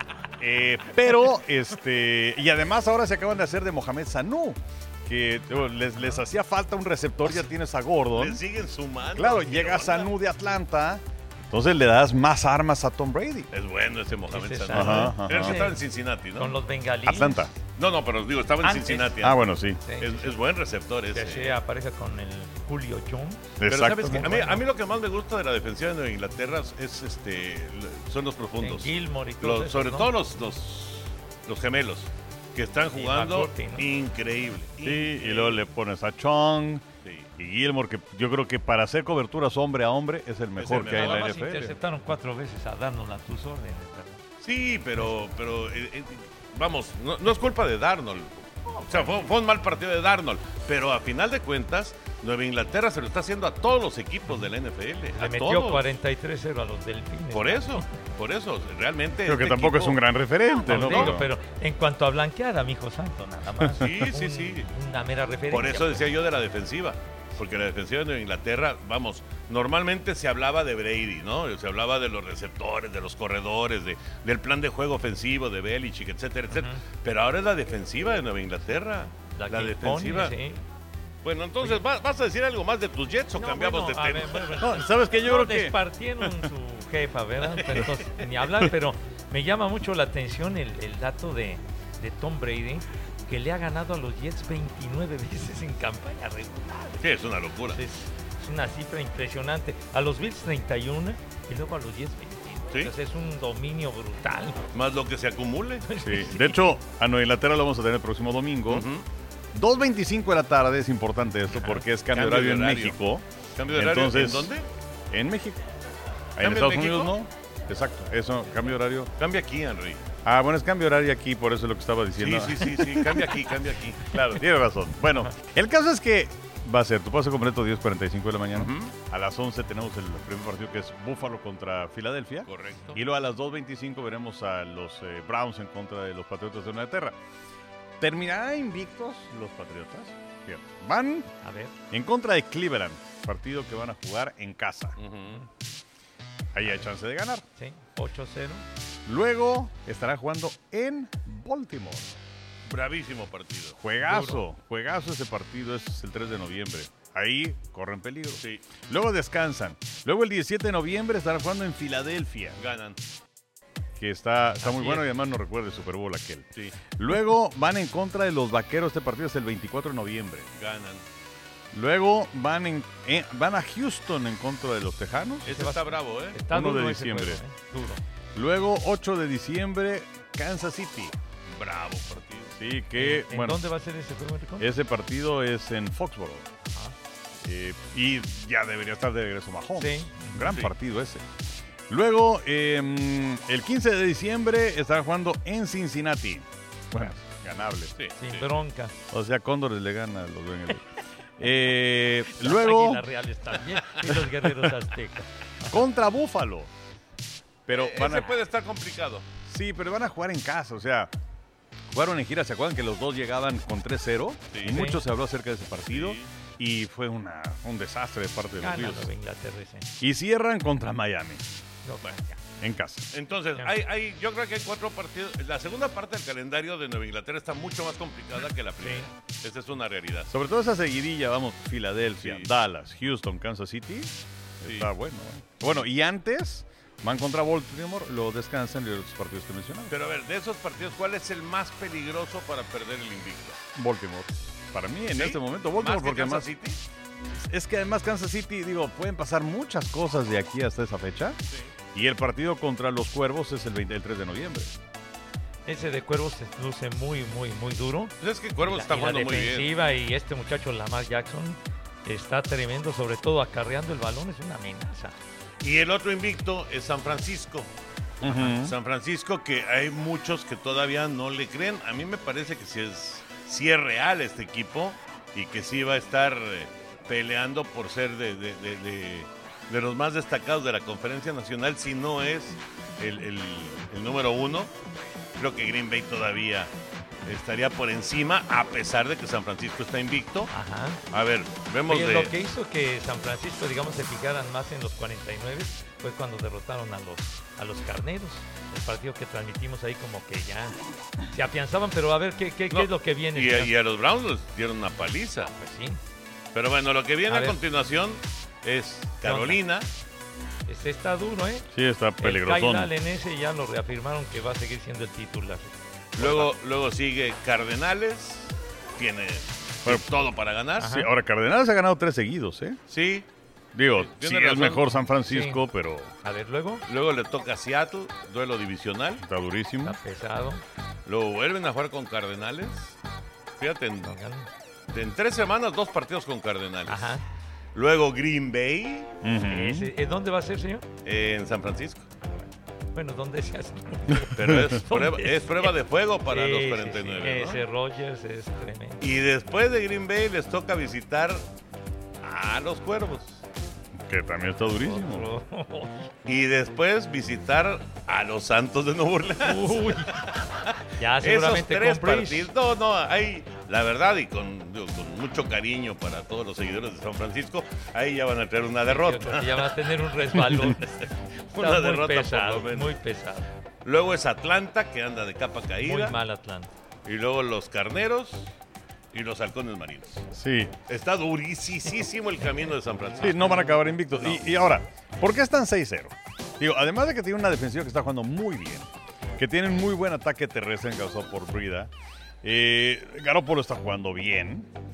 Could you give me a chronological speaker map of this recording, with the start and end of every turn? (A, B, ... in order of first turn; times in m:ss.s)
0:00.4-0:08.4 A
0:06.0-0:06.2 B
0:08.1-0:10.1 C
0:09.1-0:13.5 A
0:13.5-0:16.6 C
0:14.3-0:15.8 B
0:14.7-0:15.7 A
0:16.4-0:17.5 B
0:17.0-0:17.5 A
0:17.8-0:19.4 C
0:18.6-0:20.4 B
0:19.2-0:19.8 A
0:20.0-0:21.6 C
0:21.1-0:24.6 B
0:23.6-0:24.4 A
0:23.7-0:35.6 C
0:28.6-0:30.1 B
0:32.9-0:33.9 B
0:34.8-0:36.8 A
0:37.0-0:37.3 C
0:37.4-0:41.8 A
0:40.6-0:41.4 C
0:40.8-0:44.2 B
0:44.4-0:55.9 C
0:48.7-0:49.2 B
0:55.1-0:57.9 B
0:57.3-1:00.1 C
0:59.2-1:01.3 A
1:00.6-1:01.2 C
1:00.6-1:06.1 B
1:03.6-1:04.1 A
1:03.8-1:04.7 C
1:05.5-1:20.4 C
1:16.5-1:16.8 B
1:19.3-1:20.6 B
1:21.2-1:24.7 C
1:23.4-1:37.1 B
1:24.6-1:26.4 A
1:37.0-1:37.8 C
1:37.7-1:44.6 B
1:44.7-1:45.9 C
1:45.8-1:46.8 B
1:46.0-1:48.9 A
1:48.7-1:49.1 C
1:49.5-1:54.6 A
1:51.5-1:51.9 B
1:52.1-1:53.0 C
1:53.6-1:54.7 C
1:55.1-1:55.6 A
1:56.4-1:59.1 A
1:56.4-1:57.2 C
1:59.2-2:00.0 C
2:00.2-2:03.4 A
2:02.1-2:04.4 C
2:04.1-2:17.2 A
2:08.6-2:08.9 C
2:12.4-2:13.0 C
2:18.0-2:21.3 A
2:21.4-2:21.8 B
2:21.9-2:25.0 A
2:25.0-2:25.4 C
2:26.5-2:27.4 A
2:26.6-2:26.9 B
2:27.6-2:28.7 B
2:29.1-2:32.1 A
2:32.7-2:33.8 C
2:33.8-2:42.6 A
2:34.0-2:34.4 B
2:42.6-2:43.0 C
2:44.0-2:46.4 A
2:44.6-2:45.0 B
2:47.0-2:50.5 A
2:50.6-2:51.0 C
2:51.7-2:55.5 A
2:55.4-2:56.4 C
2:55.4-2:58.0 B
2:56.5-2:57.4 A
2:58.4-3:01.1 A
3:01.5-3:02.6 C
3:02.6-3:03.6 A
3:03.0-3:04.7 B
3:04.6-3:06.4 A
3:06.6-3:06.9 B
3:07.4-3:11.2 A
3:09.8-3:10.5 B
3:10.4-3:10.7 C
3:11.9-3:17.9 A
3:17.9-3:18.5 C
3:18.2-3:18.9 B
3:19.1-3:20.9 A
3:21.4-3:23.0 A
3:22.2-3:25.7 B
3:25.7-3:26.7 A
3:27.7-3:28.4 A
3:27.7-3:29.2 C
3:29.4-3:31.1 A
3:31.9-3:39.1 A
3:34.5-3:34.8 C
3:34.7-3:35.0 B
3:35.9-3:36.3 C
3:38.6-3:39.9 B
3:40.0-3:41.4 A
3:41.8-3:42.4 B
3:42.6-3:43.1 A
3:43.1-3:50.3 C
3:48.8-3:49.1 B
3:50.3-3:59.9 A
3:52.2-3:52.5 C
3:54.6-3:54.9 C
3:59.9-4:03.6 C
4:03.8-4:06.5 A
4:05.1-4:06.8 C
4:07.3-4:11.4 A
4:11.9-4:14.7 A
4:15.6-4:25.2 B
4:18.2-4:19.7 C
4:25.6-4:27.7 C
4:28.2-4:28.8 A
4:28.3-4:28.5 B
4:28.6-4:44.7 C
4:45.4-4:46.7 C
4:47.2-4:50.5 C
4:50.5-4:51.0 B
4:51.1-4:52.3 C
4:51.9-5:00.8 B
5:01.3-5:03.8 B
5:02.7-5:05.5 C
5:05.5-5:06.0 B
5:06.5-5:09.9 C
5:07.3-5:07.6 B
5:09.2-5:09.6 B
5:10.6-5:15.7 B
5:11.7-5:12.9 A
5:16.2-5:21.0 C
5:16.2-5:16.5 A
5:20.8-5:21.1 B
5:20.8-5:22.8 A
5:22.9-5:23.3 C
5:23.8-5:26.1 A
5:24.0-5:24.9 C
5:25.3-5:25.6 B
5:26.2-5:26.8 B
5:26.9-5:29.2 C
5:29.2-5:30.0 A
5:29.8-5:30.6 B
5:31.1-5:33.0 C
5:33.6-5:34.1 C
5:34.0-5:34.5 B
5:34.9-5:37.2 C
5:36.9-5:37.2 B
5:37.8-5:39.1 C
5:39.2-5:39.9 A
5:39.5-5:40.8 B
5:41.0-5:42.1 C
5:42.9-5:49.0 B
5:44.3-5:47.6 C
5:44.4-5:44.8 A
5:49.0-5:51.4 C
5:52.2-5:53.4 C
5:54.0-5:55.3 A
5:54.6-5:56.1 B
5:56.2-6:12.9 C
5:59.4-6:00.2 B
6:01.0-6:02.5 B
6:08.8-6:13.5 B
6:13.8-6:16.2 C
6:15.8-6:16.7 B
6:17.0-6:18.5 C
6:19.1-6:20.2 C
6:20.3-6:20.7 A
6:20.9-6:24.4 C
6:23.2-6:31.9 A
6:32.4-6:34.7 A